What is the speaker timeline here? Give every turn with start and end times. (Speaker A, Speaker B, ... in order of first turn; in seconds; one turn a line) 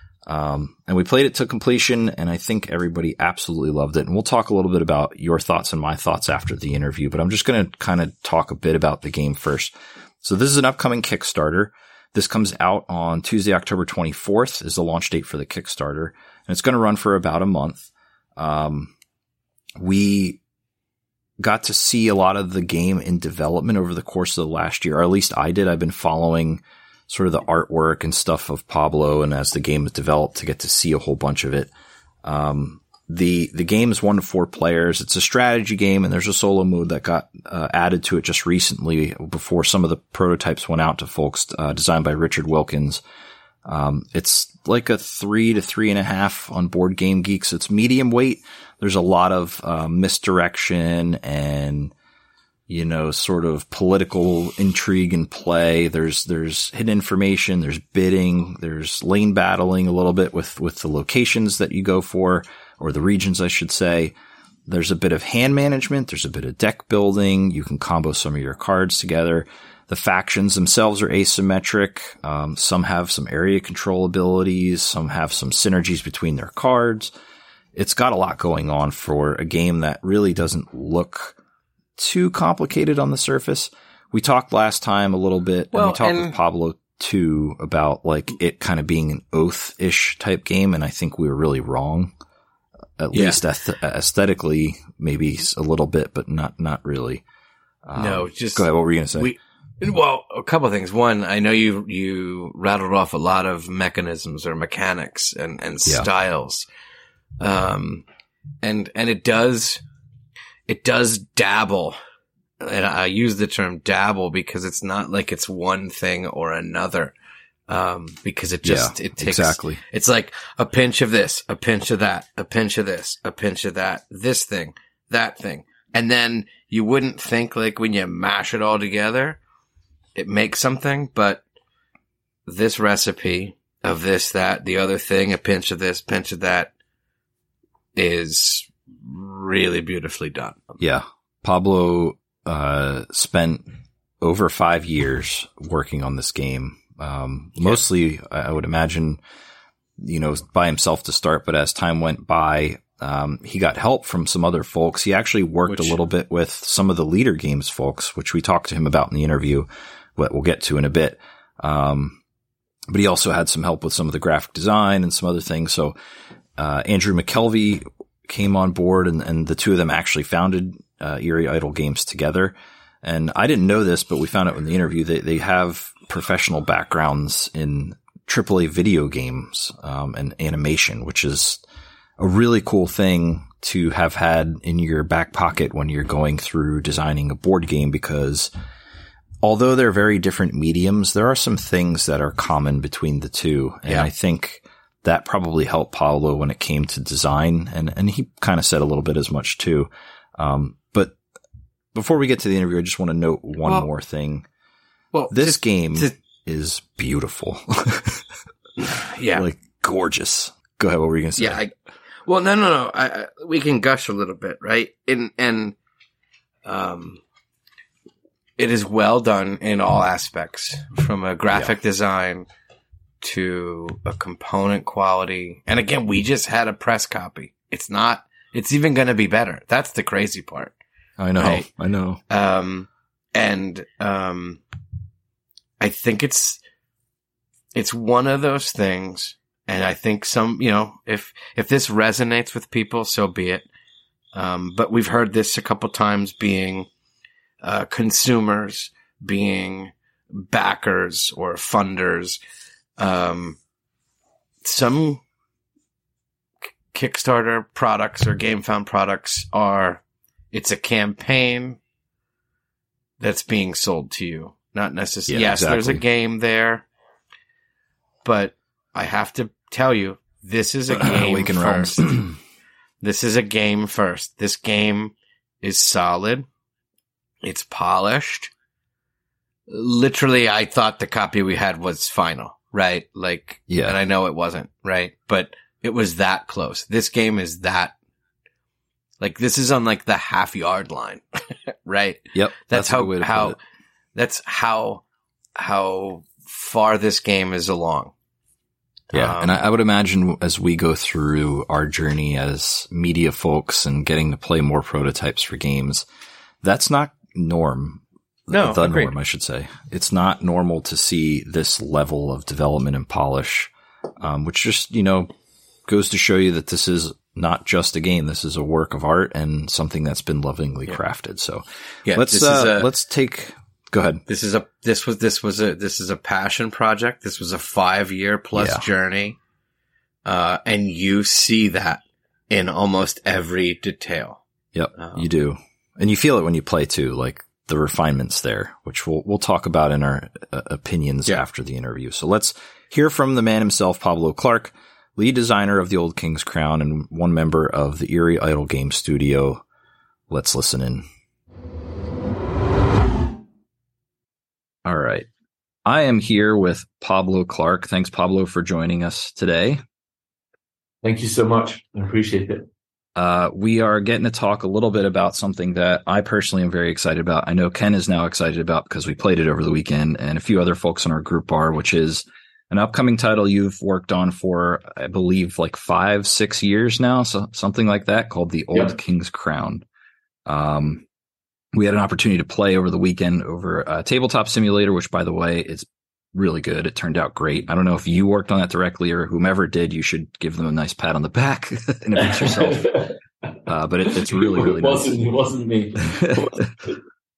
Speaker A: 0.2-17.9
Speaker A: 18.4-18.9
Speaker A: 19.8-20.4
Speaker A: 21.4-31.7
Speaker A: 32.2-43.0
Speaker A: 43.6-51.9
Speaker A: 52.7-64.1
Speaker A: 64.7-77.1
Speaker A: 77.7-81.3
Speaker A: 82.0-92.1
Speaker B: 85.7-86.3
Speaker A: 93.0-97.2
Speaker B: 93.1-93.4
Speaker A: 97.8-99.3
Speaker B: 98.0-106.7
Speaker B: 107.4-108.0
Speaker B: 108.6-109.8
Speaker B: 110.7-112.0
Speaker B: 112.6-117.1
Speaker B: 117.7-129.4
Speaker A: 118.6-119.8
Speaker B: 130.2-131.4
Speaker B: 132.4-136.7
Speaker B: 137.9-140.6
Speaker A: 140.8-143.7
Speaker A: 144.2-149.2
Speaker A: 150.0-162.2
Speaker B: 155.7-156.0
Speaker A: 162.9-165.9
Speaker A: 166.6-181.6
Speaker A: 182.2-188.5
Speaker A: 189.4-201.2
Speaker A: 201.9-204.4
Speaker B: 203.6-203.9
Speaker B: 205.1-206.1
Speaker A: 205.3-208.2
Speaker B: 208.8-209.4
Speaker A: 209.3-211.6
Speaker B: 211.4-211.7
Speaker B: 212.2-215.8
Speaker B: 216.6-217.2
Speaker B: 218.6-222.5
Speaker A: 221.5-221.8
Speaker B: 223.2-230.7
Speaker A: 231.2-232.2
Speaker B: 231.4-231.7
Speaker B: 232.3-234.6
Speaker B: 235.8-236.6
Speaker B: 237.7-243.7
Speaker B: 244.3-246.9
Speaker B: 247.6-252.4
Speaker B: 253.0-253.6
Speaker B: 254.6-255.2
Speaker B: 256.9-261.8
Speaker B: 263.2-266.9
Speaker A: 265.3-266.0
Speaker B: 268.2-272.2
Speaker A: 270.9-272.4
Speaker B: 273.0-276.5
Speaker B: 277.4-278.5
Speaker B: 279.7-287.9
Speaker A: 283.7-284.0
Speaker B: 289.2-293.6
Speaker A: 292.3-293.6
Speaker B: 294.1-295.0
Speaker B: 295.6-298.1
Speaker A: 299.1-306.1
Speaker B: 299.1-299.6
Speaker A: 306.6-315.3
Speaker B: 308.5-309.1
Speaker A: 315.9-324.2
Speaker B: 322.1-322.9
Speaker B: 324.3-329.4
Speaker A: 328.5-328.8
Speaker B: 330.2-334.4
Speaker A: 334.7-349.6
Speaker B: 334.9-335.2
Speaker A: 350.3-351.1
Speaker A: 354.8-355.3
Speaker A: 355.8-359.8
Speaker C: 361.0-362.7
Speaker A: 363.1-379.8
Speaker A: 380.4-381.0
Speaker A: 381.7-393.0
Speaker C: 392.2-393.1
Speaker A: 393.7-395.2
Speaker C: 394.0-397.0
Speaker A: 396.2-396.6